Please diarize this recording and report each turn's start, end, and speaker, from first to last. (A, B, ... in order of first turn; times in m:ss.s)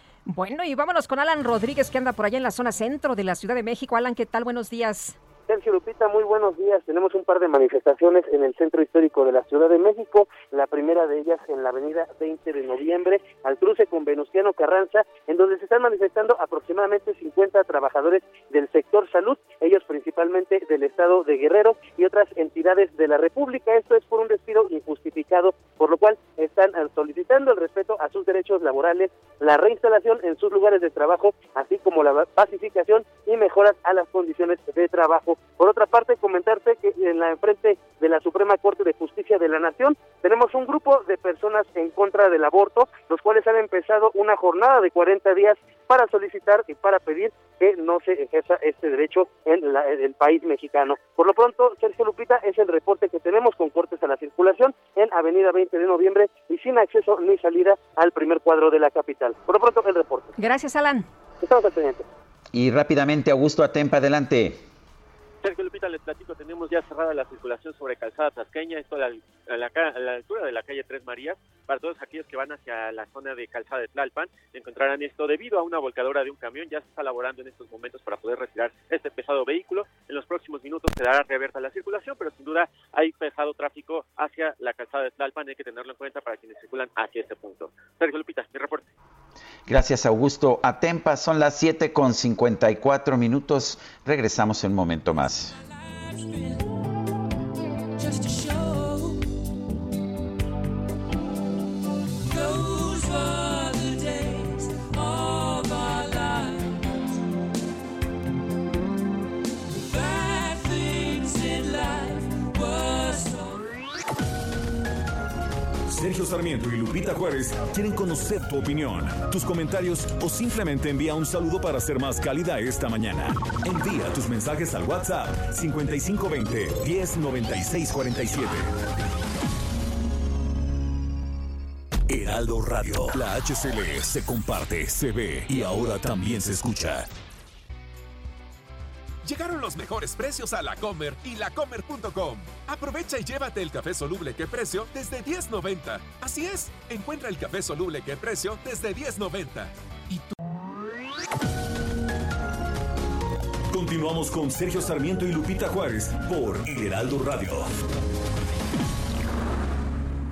0:00.3-0:05.2 A
0:05.5-1:00.3 B
1:00.4-1:01.1 A
1:01.4-1:02.0 B
1:02.5-1:04.6 C
1:05.4-1:28.9 D
1:29.7-1:35.6 C
1:35.5-1:36.7 E
1:38.0-1:39.3 E
1:42.2-1:47.4 E
1:49.8-1:53.7 E
1:55.9-2:08.7 F
2:12.1-2:17.1 F
2:19.2-2:30.3 G
2:33.7-2:37.7 F